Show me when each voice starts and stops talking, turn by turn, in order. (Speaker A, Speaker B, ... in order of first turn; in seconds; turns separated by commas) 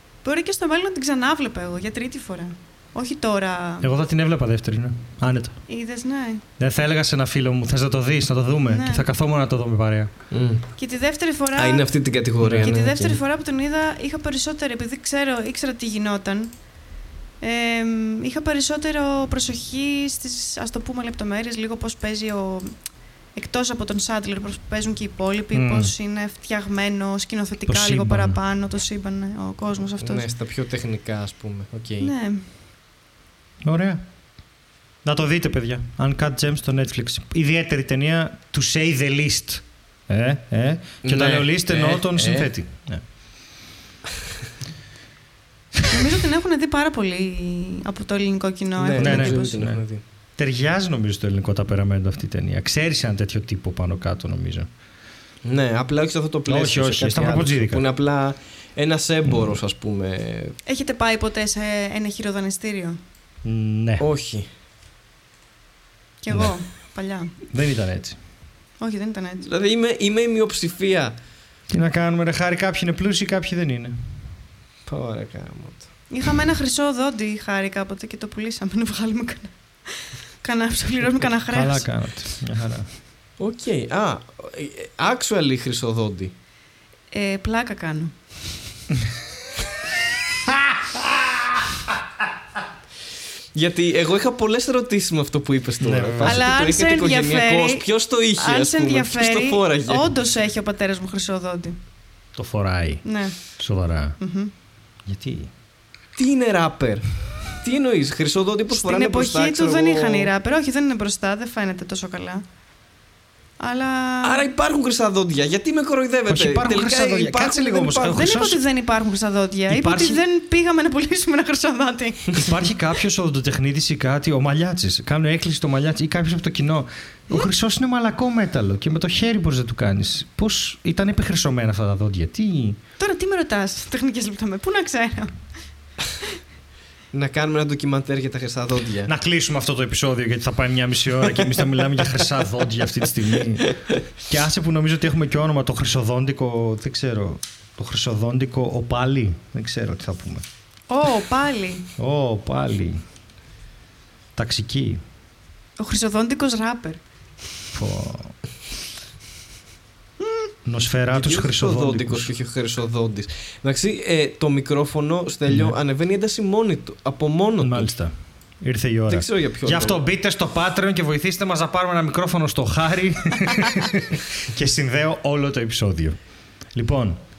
Speaker A: 0.2-3.9, Speaker B: 3.8-5.6, Speaker A: 5.7-6.4, Speaker B: 6.6-10.1, Speaker A: 8.7-9.0, Speaker C: 10.3-10.6, Speaker A: 10.8-12.1, Speaker C: 11.6-13.2, Speaker B: 12.4-12.7, Speaker A: 12.6-16.7, Speaker A: 17.4-30.2, Speaker B: 25.5-25.9, Speaker B: 27.7-28.4, Speaker C: 30.0-32.1, Speaker A: 32.0-32.5, Speaker B: 33.6-34.0, Speaker B: 35.0-43.0, Speaker C: 41.0-42.5, Speaker A: 45.9-49.6, Speaker C: 48.8-50.0, Speaker B: 49.0-49.8, Speaker B: 50.4-54.7, Speaker C: 55.4-60.5, Speaker B: 56.5-57.8, Speaker B: 59.3-59.5, Speaker A: 60.6-63.0, Speaker B: 63.4-64.0, Speaker C: 64.0-64.5, Speaker A: 66.2-67.3, Speaker B: 66.3-66.5, Speaker B: 67.5-68.2, Speaker A: 68.8-69.5, Speaker C: 69.4-71.1, Speaker B: 71.7-74.1, Speaker C: 74.9-75.9, Speaker A: 76.1-81.9, Speaker B: 81.1-82.9, Speaker C: 83.4-86.3, Speaker A: 87.1-88.1, Speaker B: 90.5-91.0, Speaker C: 93.5-100.1, Speaker B: 95.8-96.5, Speaker A: 96.2-101.8, Speaker B: 102.3-104.2, Speaker A: 103.0-103.6, Speaker A: 104.2-104.5, Speaker B: 105.0-105.5, Speaker C: 106.2-110.3, Speaker A: 108.7-112.4, Speaker A: 113.6-114.4, Speaker C: 114.2-118.2, Speaker B: 116.3-118.6, Speaker A: 118.1-122.6, Speaker B: 119.7-120.2, Speaker B: 122.3-132.8, Speaker A: 133.0-135.5, Speaker C: 137.1-139.1, Speaker B: 139.1-150.4, Speaker C: 143.6-143.9, Speaker A: 150.9-151.8, Speaker B: 152.0-153.0, Speaker B: 154.3-155.0, Speaker A: 155.8-157.0, Speaker B: 157.7-158.4, Speaker B: 160.6-162.3, Speaker C: 161.1-167.9, Speaker B: 165.5-165.7, Speaker B: 167.6-177.2, Speaker C: 169.1-170.0